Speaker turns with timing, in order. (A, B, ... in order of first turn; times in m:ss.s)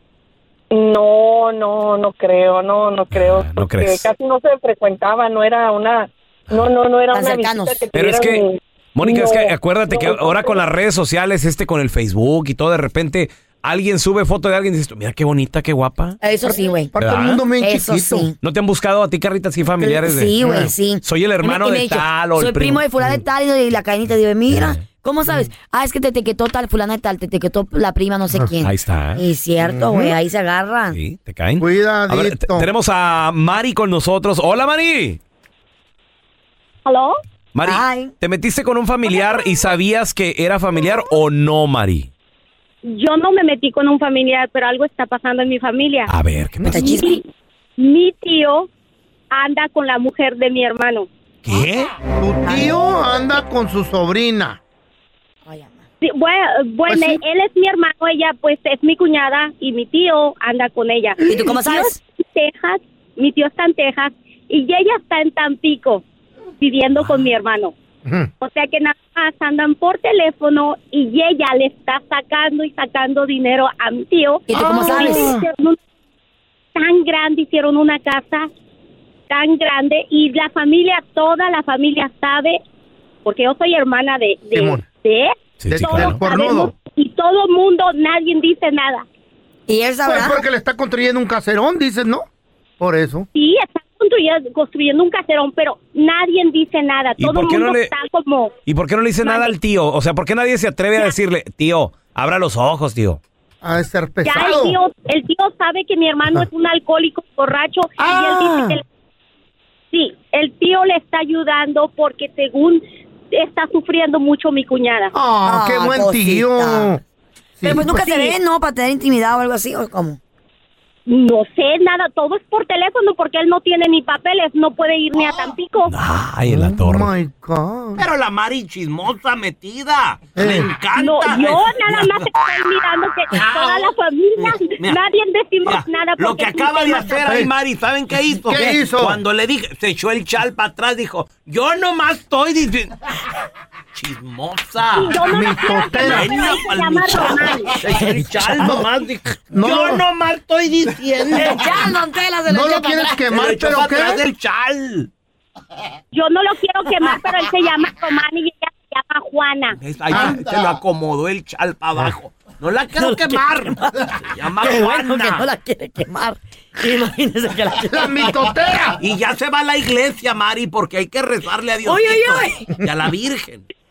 0:00.7-0:10.6 A
0:03.1-0:04.1 B
0:07.1-0:07.8 C
0:07.9-0:08.4 B
0:08.9-0:16.2 B
0:16.2-0:16.9 C
0:16.4-0:18.3 D
0:17.0-0:17.4 B
0:17.5-0:18.3 C
0:18.4-0:20.3 B
0:19.8-0:31.0 C
0:20.4-0:20.7 D
0:21.0-0:22.8 B
0:24.5-0:24.8 B
0:28.6-0:29.2 B
0:29.6-0:30.2 D
0:30.9-0:35.2 B
0:31.6-0:32.7 D
0:36.8-0:37.1 E
0:37.5-0:42.1 B
0:37.6-0:38.1 C
0:42.8-0:46.1 E
0:46.1-0:46.9 B
0:46.7-0:47.2 C
0:46.8-0:47.2 E
0:47.8-0:48.7 E
0:49.3-0:51.1 E
0:51.4-0:51.9 B
0:52.1-0:54.6 D
0:52.4-0:52.8 C
0:55.5-0:55.8 C
0:56.0-1:06.0 E
0:56.9-0:57.2 D
1:01.2-1:02.0 C
1:06.6-1:07.7 E
1:08.4-1:15.8 E
1:14.5-1:15.3 C
1:14.5-1:15.4 D
1:16.8-1:18.5 E
1:19.3-1:22.6 E
1:23.2-1:29.0 E
1:24.5-1:24.8 D
1:25.6-1:26.2 B
1:25.7-1:26.8 D
1:29.7-1:30.4 C
1:30.0-1:32.2 D
1:32.8-1:33.3 D
1:33.3-1:38.5 E
1:37.2-1:37.9 B
1:38.6-1:43.2 B
1:39.2-1:39.5 E
1:43.6-1:44.8 D
1:44.2-1:48.8 E
1:48.0-1:48.8 D
1:49.9-1:55.1 E
1:55.1-1:57.0 D
1:55.4-1:56.9 C
1:57.6-1:58.4 D
1:57.6-2:00.2 C
2:01.1-2:05.9 E
2:05.9-2:07.1 B
2:06.5-2:08.0 D
2:08.0-2:12.3 F
2:10.3-2:10.7 D
2:10.9-2:17.1 E
2:13.3-2:15.0 F
2:15.6-2:22.9 F
2:18.5-2:19.2 D
2:23.9-2:31.9 F
2:25.0-2:27.8 E
2:25.2-2:26.4 D
2:28.6-2:28.9 D
2:29.4-2:30.0 D
2:31.3-2:33.2 C
2:32.5-2:34.2 D
2:33.3-2:35.1 F
2:36.1-2:39.8 E
2:39.8-2:45.5 F
2:40.1-2:40.6 D
2:43.0-2:48.3 C
2:47.9-2:49.0 D
2:49.0-2:53.6 F
2:51.8-2:52.6 C